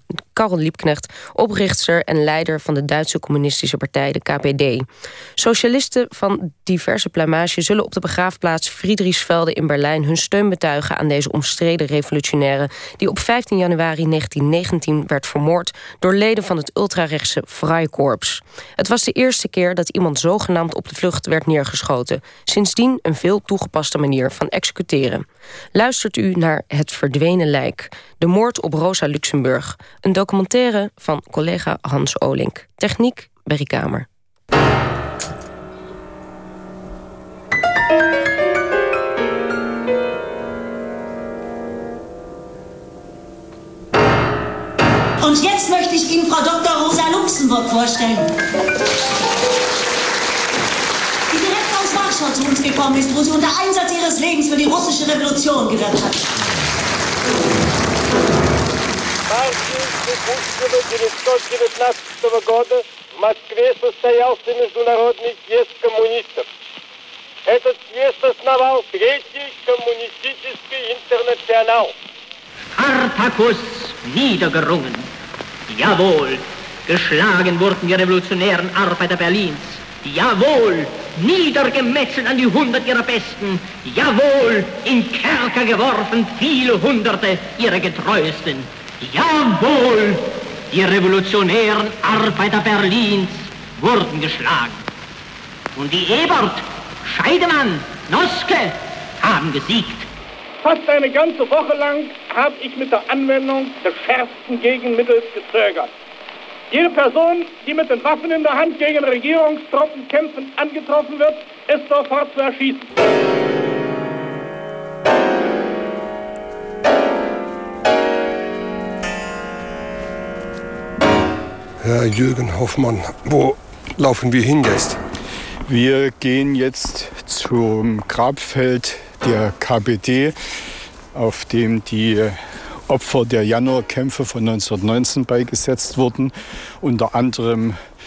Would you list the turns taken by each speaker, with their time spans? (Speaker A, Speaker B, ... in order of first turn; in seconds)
Speaker A: 0.3-4.9, 5.4-34.1
Speaker B: 45.2-48.3, 51.3-56.3
Speaker C: 59.3-66.5, 67.5-71.9, 100.6-105.9, 106.7-112.9
Speaker D: 72.8-75.1, 75.7-94.8, 95.8-100.1
Speaker E: 121.8-125.0
Speaker F: 125.7-130.3, 131.1-137.8